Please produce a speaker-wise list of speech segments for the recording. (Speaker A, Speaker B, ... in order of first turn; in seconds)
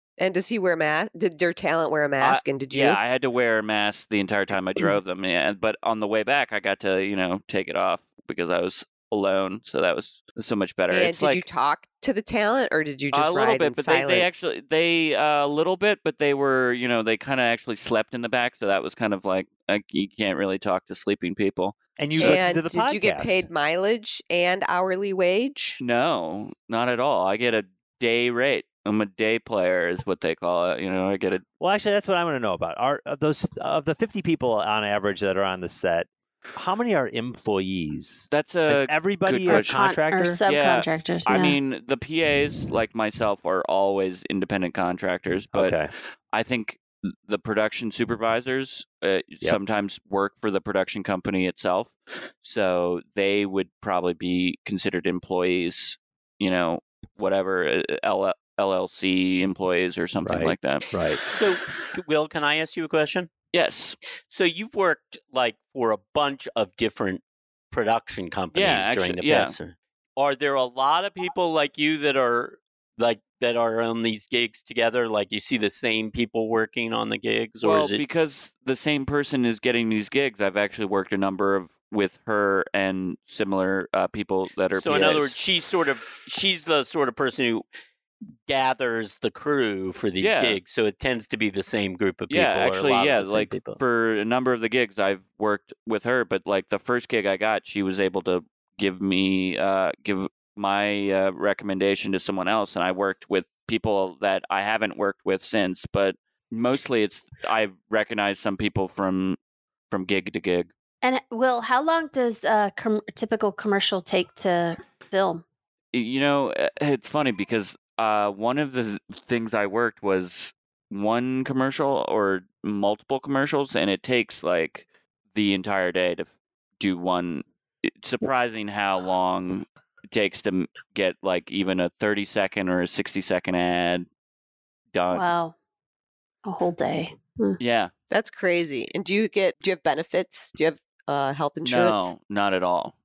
Speaker A: 0.2-3.0, 10.9-14.5, 22.2-25.8, 138.1-142.1
Speaker B: 2.2-11.5, 13.1-22.5, 25.8-31.4, 38.3-39.8, 40.5-60.9, 63.5-64.0, 68.5-69.6, 77.6-85.4, 90.2-90.6, 92.3-109.4, 109.9-110.7, 115.9-134.1, 134.9-135.3, 137.6-137.9, 141.6-142.9
Speaker C: 22.0-23.5, 31.6-40.4, 45.5-45.9, 60.2-61.2
Speaker D: 39.5-41.6, 111.0-115.4, 135.1-135.6, 136.4-137.6
Speaker E: 61.3-63.3, 64.3-78.0, 84.7-87.7, 88.5-93.8